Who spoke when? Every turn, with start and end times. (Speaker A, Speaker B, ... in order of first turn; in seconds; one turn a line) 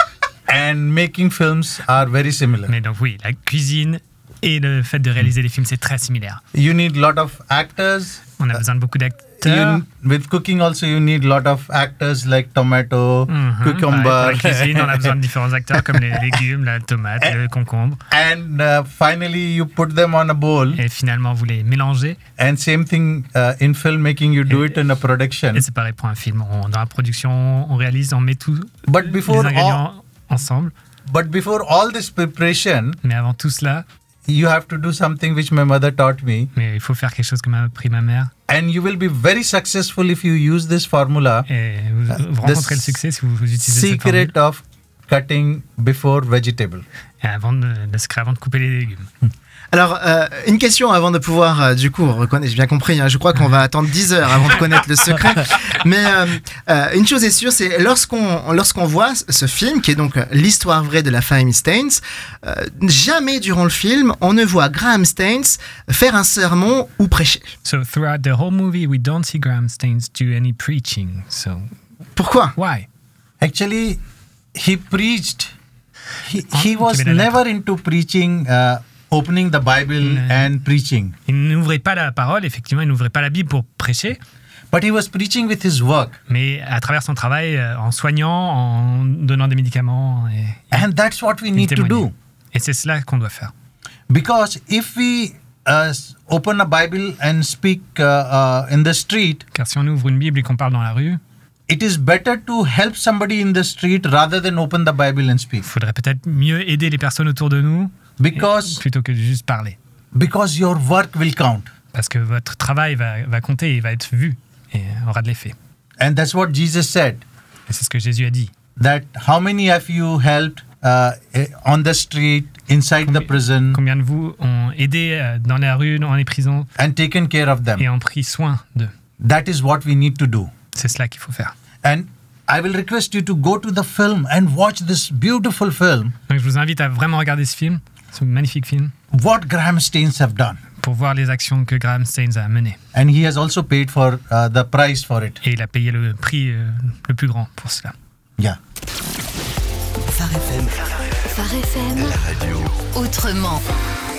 Speaker A: 0.5-2.7
Speaker B: 2.7-6.4
Speaker A: 6.5-8.2
Speaker B: 8.4-9.8
Speaker A: 9.4-15.2
Speaker B: 13.3-18.0
Speaker A: 18.1-20.8
Speaker B: 20.7-22.2
Speaker A: 22.4-25.6
Speaker B: 25.5-30.7
Speaker A: 28.9-29.8
Speaker A: 31.1-33.0
Speaker B: 33.0-33.8
Speaker A: 34.2-36.5
Speaker B: 36.5-38.3
Speaker A: 38.5-41.5
Speaker B: 41.5-44.3
Speaker A: 42.1-43.0
Speaker A: 43.7-46.8
Speaker B: 47.2-49.1
Speaker C: 49.7-67.5
Speaker B: 67.6-71.7
Speaker C: 72.2-72.5
Speaker B: 72.5-72.9
Speaker A: 73.4-74.0
Speaker A: 74.5-75.5
Speaker A: 76.2-81.1
Speaker B: 76.5-77.4
Speaker B: 80.0-80.5
Speaker B: 81.2-84.2
Speaker A: 84.7-86.2
Speaker B: 86.3-90.8
Speaker A: 90.7-92.1
Speaker B: 91.5-93.5
Speaker A: 94.1-99.4
Speaker B: 99.5-101.2
Speaker A: 101.7-105.6
Speaker B: 105.6-109.8
Speaker A: 108.2-108.8
Speaker A: 110.1-111.7
Speaker B: 111.9-115.5
Speaker A: 116.0-117.2
Speaker B: 117.7-118.5
Speaker A: 118.8-123.8
Speaker B: 123.0-126.7
Speaker A: 126.8-127.8
Speaker B: 127.8-128.9
Speaker A: 129.2-130.5
Speaker B: 130.7-131.5
Speaker A: 131.8-136.1
Speaker B: 136.3-138.9
Speaker A: 139.1-140.6
Speaker B: 140.8-142.8
Speaker A: 142.9-145.4
Speaker B: 145.4-147.9
Speaker D: 150.1-150.7
Speaker D: 151.3-152.4
Speaker D: 152.9-153.6